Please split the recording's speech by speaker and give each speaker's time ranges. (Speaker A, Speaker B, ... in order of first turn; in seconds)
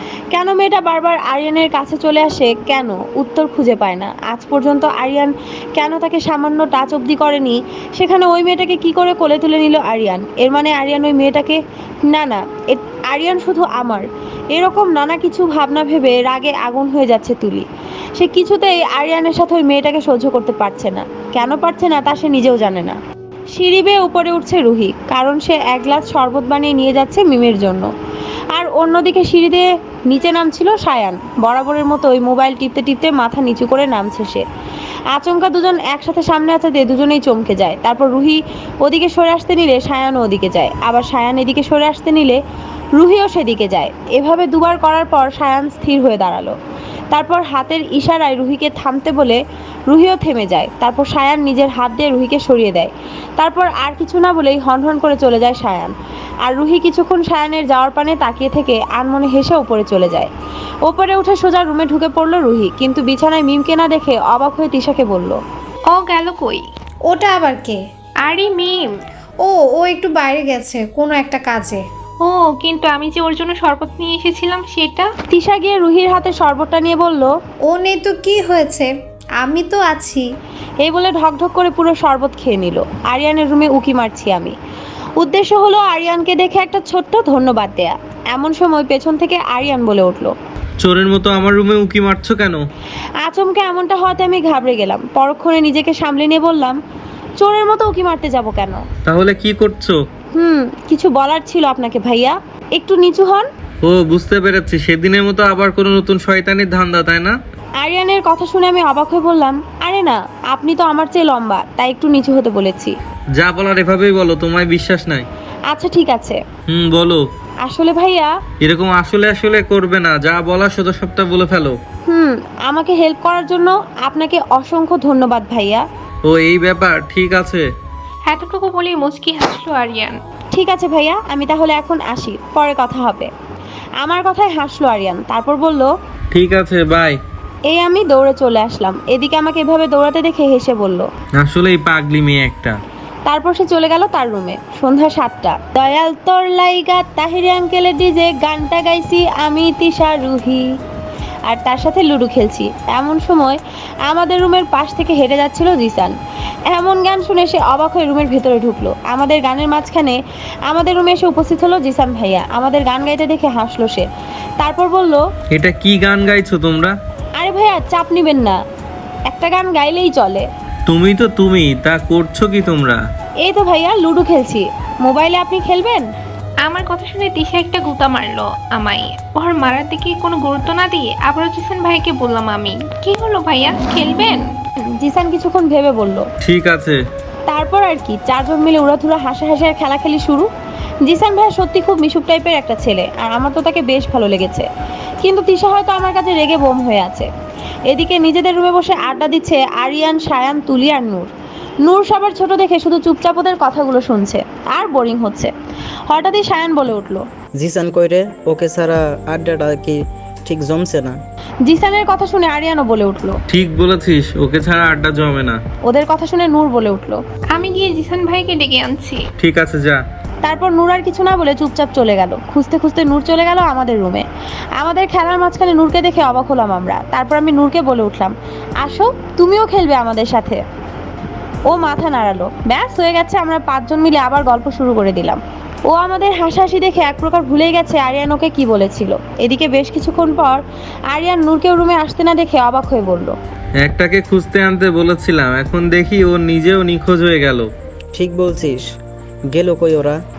Speaker A: 0.3-23.0, 23.5-27.9, 28.5-34.4, 35.1-42.4, 43.0-46.5, 47.1-55.9, 56.5-60.3, 60.9-65.4, 75.3-77.3, 80.8-84.5, 85.2-90.3, 93.2-96.8, 97.4-98.8, 100.3-103.5, 107.8-112.9, 115.7-116.4, 117.6-118.3, 122.1-125.8, 130.5-133.3, 134.0-135.9, 137.7-141.1, 143.3-150.7, 151.5-156.2, 156.7-164.1, 164.6-165.2, 167.4-168.6, 169.3-170.5, 173.4-176.1, 184.8-186.3, 187.5-190.5, 191.0-194.7, 195.2-197.3, 197.9-201.3, 201.8-205.5, 206.1-207.2, 211.7-213.4, 215.9-217.2, 220.4-224.2, 224.8-230.6, 231.7-243.3
Speaker B: 65.9-66.6, 68.2-68.8, 72.2-75.1, 128.3-130.2, 176.6-184.4, 217.5-219.2
Speaker C: 67.1-67.8, 69.4-71.8, 77.7-80.3
Speaker D: 90.8-92.6, 99.1-100.0, 103.8-107.4, 113.4-115.3, 116.7-117.2, 118.6-121.8, 126.2-127.7, 136.3-137.2, 141.4-142.8, 165.5-166.9, 170.9-173.0, 186.4-187.0, 213.5-215.6, 219.4-220.0, 243.8-247.7
Speaker E: 207.6-211.2, 248.2-248.8, 249.5-250.2